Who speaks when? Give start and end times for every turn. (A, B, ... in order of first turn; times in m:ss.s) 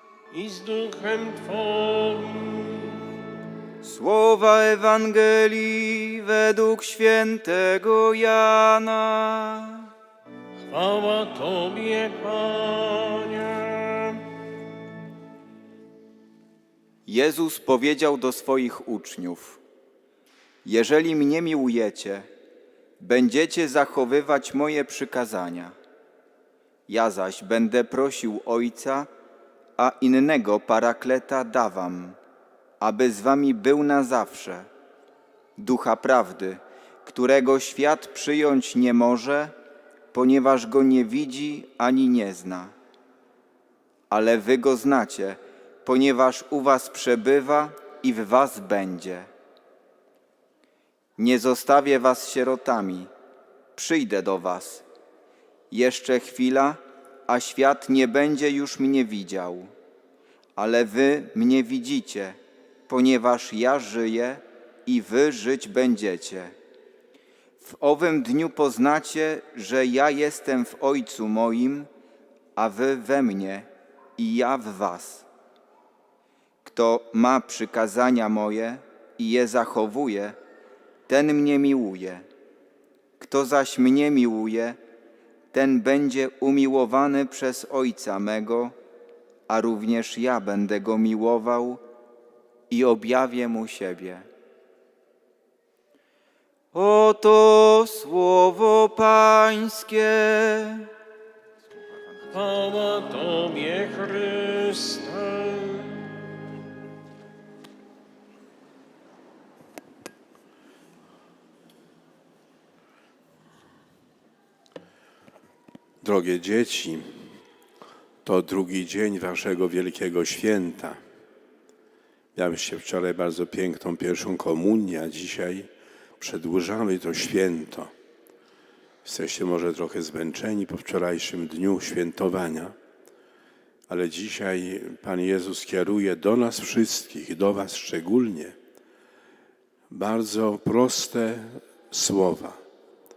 0:00.3-0:03.0 A
0:03.8-0:09.9 B
0:10.7-0:14.2 A
0:17.1-0:19.6 B
0:20.6-0:22.3 B
0:23.0-0:25.8 B
0:26.9-0:29.1 B
0:29.8-0:32.2 B
0:32.8-0:34.7 B
0:35.6-0:39.5 B
0:40.1-0:42.7 B
0:44.1-0:49.3 B
0:51.2-0:53.1 B
0:53.8-0:54.9 B
0:55.7-0:59.7 B
1:00.6-1:02.4 B
1:02.9-1:06.5 B
1:07.6-1:11.9 B
1:12.6-1:15.3 B
1:16.6-1:20.4 B
1:21.1-1:22.2 B
1:23.2-1:24.8 B
1:25.5-1:28.8 B
1:29.5-1:31.8 B
1:32.7-1:34.2 B
1:36.7-1:40.9 B
1:42.3-1:46.2 A
1:56.0-1:57.2 C
1:58.2-2:01.0 C
2:02.4-2:05.7 C
2:06.2-2:07.9 C
2:09.0-2:12.7 C
2:13.9-2:18.6 C
2:19.9-2:22.6 C